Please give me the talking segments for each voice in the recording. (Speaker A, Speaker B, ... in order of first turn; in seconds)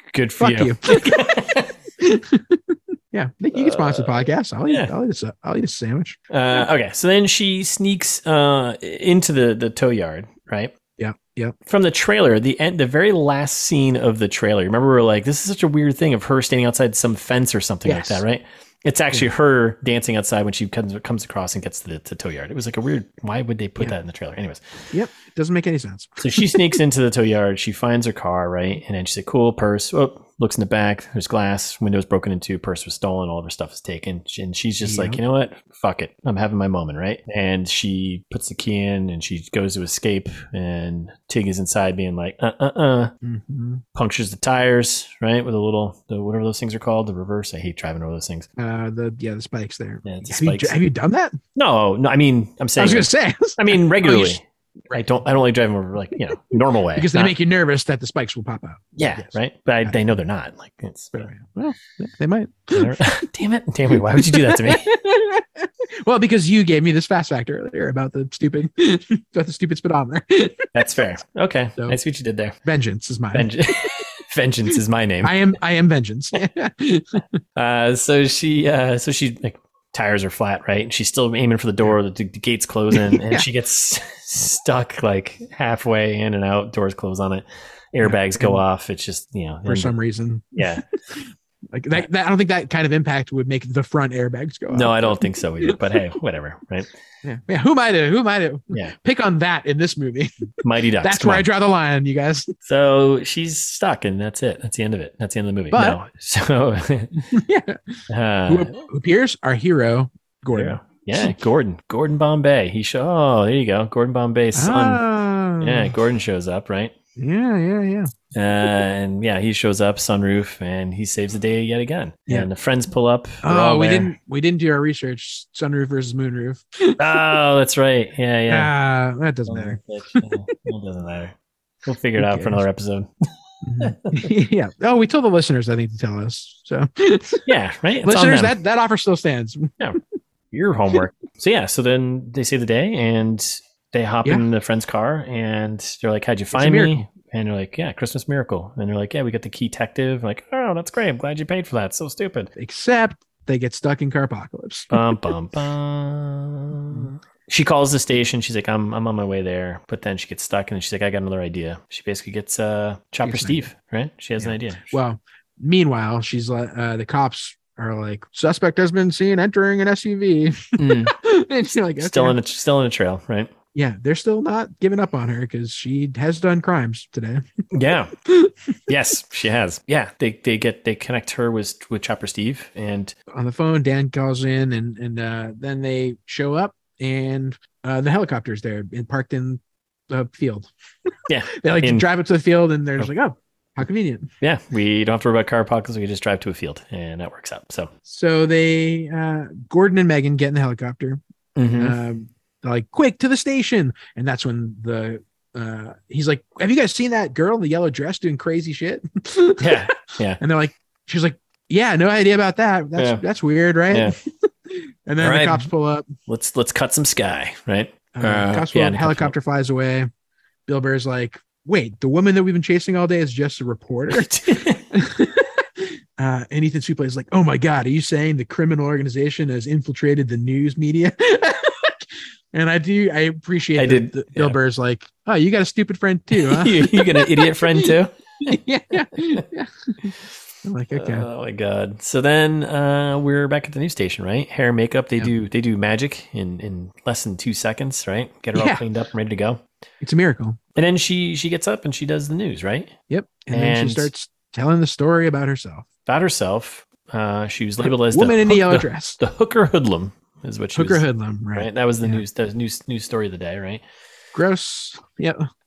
Speaker A: 0.1-1.7, 3.5-4.9, 6.3-10.7, 11.7-24.6, 26.2-43.1, 43.9-48.5, 50.0-50.8, 51.5-57.3, 59.0-61.3, 62.7-64.9, 70.7-72.6, 73.3-75.4, 77.5-89.9, 90.5-90.8, 94.7-96.9, 100.6-101.5, 102.6-107.2, 108.1-108.7, 110.5-115.0, 115.6-116.9, 118.3-124.1, 127.0-128.7, 129.5-133.1, 133.8-134.2, 137.4-138.5, 140.5-152.5, 154.9-164.9, 170.8-171.1, 172.0-173.5, 177.7-178.1, 178.9-183.1, 191.3-192.0, 194.4-197.9, 201.6-201.9, 209.6-210.4, 212.9-213.2, 215.2-215.7, 216.3-219.3, 224.1-224.8, 233.8-234.6, 236.3-238.6, 240.9-249.6, 250.8-252.9, 253.5-254.1, 256.1-261.0, 261.5-263.8
Speaker B: 0.4-1.3, 2.0-6.2, 11.0-11.6, 17.8-18.2, 24.9-26.8, 34.8-35.2, 43.2-43.8, 48.6-51.4, 52.8-54.4, 56.9-60.0, 61.1-63.2, 63.9-70.7, 72.6-74.0, 75.2-77.3, 82.9-83.5, 88.0-88.6, 89.7-95.8, 97.2-102.5, 105.7-106.0, 107.3-111.3, 114.5-115.9, 117.2-118.1, 123.4-127.3, 128.5-130.6, 132.2-132.6, 133.6-137.5, 138.0-139.8, 146.5-147.0, 152.6-155.0, 163.2-163.7, 164.4-172.4, 173.7-177.4, 178.2-178.7, 183.3-190.7, 191.5-194.3, 198.0-201.2, 201.8-214.1, 214.7-216.1, 218.1-220.1, 220.7-224.3, 224.9-232.0, 232.5-241.3, 248.5-248.8, 250.0-250.6, 253.1-255.8, 257.8-259.2, 260.7-262.2, 264.3-265.4